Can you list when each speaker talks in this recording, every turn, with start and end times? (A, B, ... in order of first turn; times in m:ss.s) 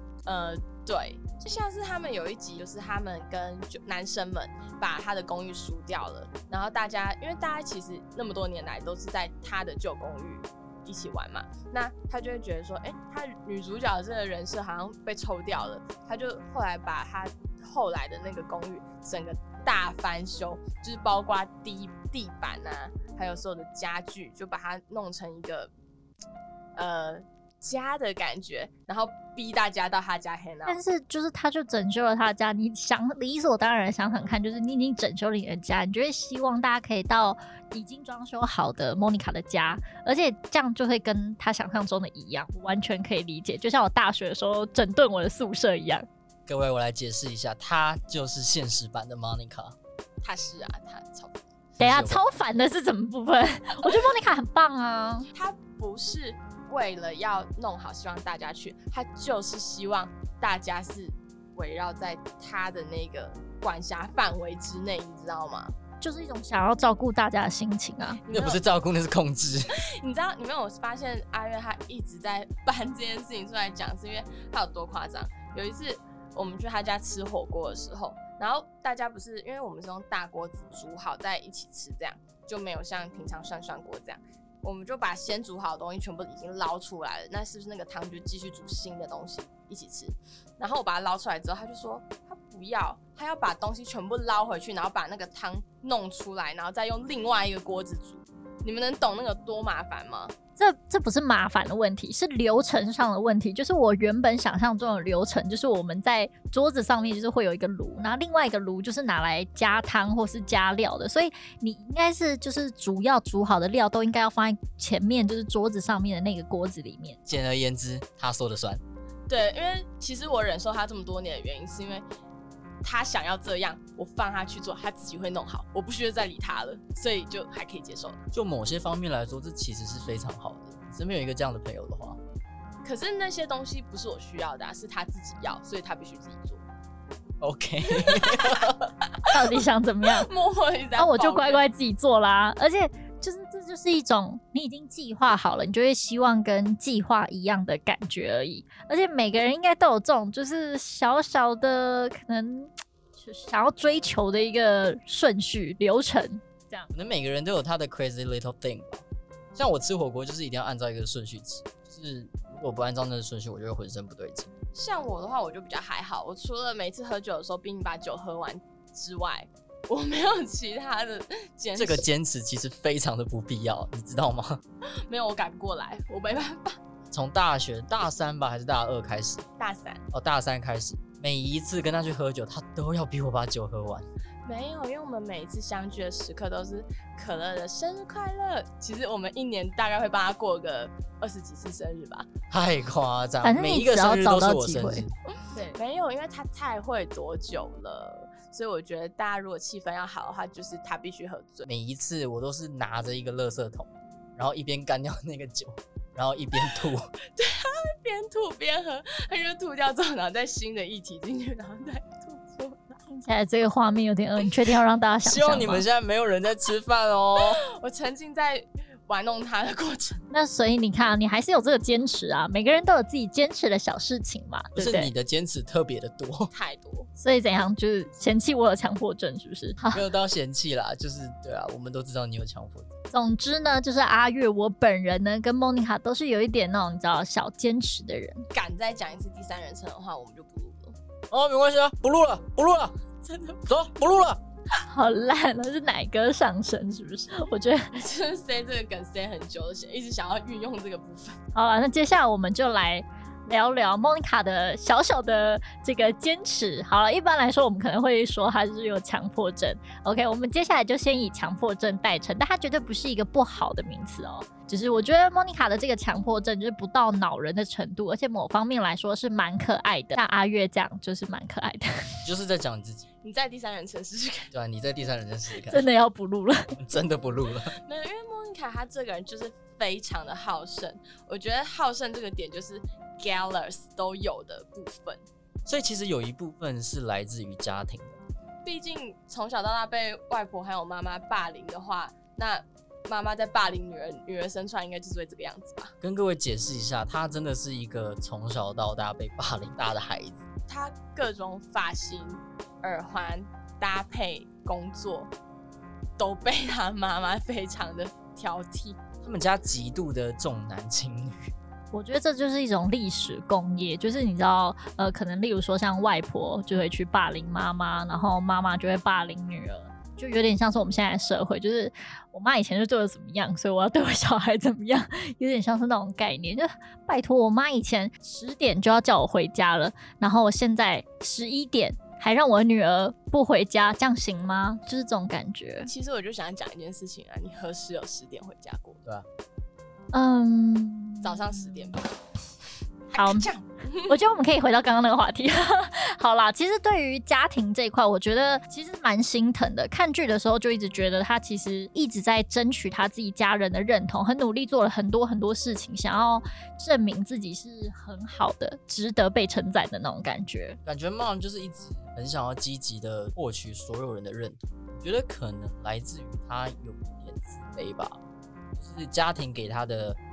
0:00.2-0:25.7 A
0:26.8-0:30.8 A
0:30.6-0:46.1 B
0:46.5-0:49.7 C
0:50.2-0:51.4 A
0:51.8-0:52.2 C
0:51.8-0:55.3 B
0:55.3-1:05.7 A
1:06.0-1:08.2 B
1:08.2-1:08.6 A
1:08.3-1:09.7 C
1:09.9-1:40.3 A
1:40.6-1:57.2 B
1:57.3-1:58.8 C
1:59.3-2:02.1 A
2:02.8-2:08.2 A
2:08.3-2:12.2 C
2:12.8-2:16.6 A
2:17.4-2:18.9 C
2:18.0-2:19.6 A
2:19.3-2:20.3 B
2:20.1-2:21.6 A
2:21.0-2:36.9 B
2:36.9-2:39.0 C
2:39.5-2:44.5 C
2:44.7-2:52.0 A
2:51.8-2:54.6 C
2:55.1-2:56.8 A
2:57.1-2:59.4 C
2:59.6-3:00.0 A
3:00.1-3:04.1 C
3:04.4-3:12.3 A
3:12.5-3:15.1 C
3:13.4-3:15.0 B
3:15.5-3:21.7 A
3:21.6-3:27.1 C
3:27.4-3:33.0 A
3:33.1-3:35.8 B
3:35.2-3:37.6 C
3:37.7-3:40.2 A
3:40.3-3:45.1 B
3:44.7-3:46.5 C
3:46.5-3:47.1 A
3:47.2-3:50.0 B
3:49.9-3:53.0 C
3:53.1-3:58.4 B
3:58.5-4:01.0 A
4:01.3-4:02.9 C
4:03.2-4:03.7 A
4:03.7-4:04.4 C
4:04.8-4:07.9 B
4:07.9-4:11.4 A
4:11.5-4:32.3 B
4:32.2-4:33.0 C
4:33.2-4:34.5 A
4:34.5-4:35.9 C
4:35.7-4:36.7 B
4:36.7-4:37.7 C
4:37.7-4:45.2 A
4:45.6-4:48.2 C
4:48.6-4:56.0 A
4:56.0-5:00.4 C
5:00.7-5:05.3 A
5:06.2-5:09.0 A
5:09.2-5:11.5 C
5:11.9-5:35.9 B
5:35.8-5:39.0 A
5:40.1-5:42.0 B
5:41.2-5:42.2 A
5:43.1-5:44.2 A
5:43.2-5:43.5 B
5:44.1-6:00.8 B
6:00.8-6:08.2 C
6:08.8-6:10.2 C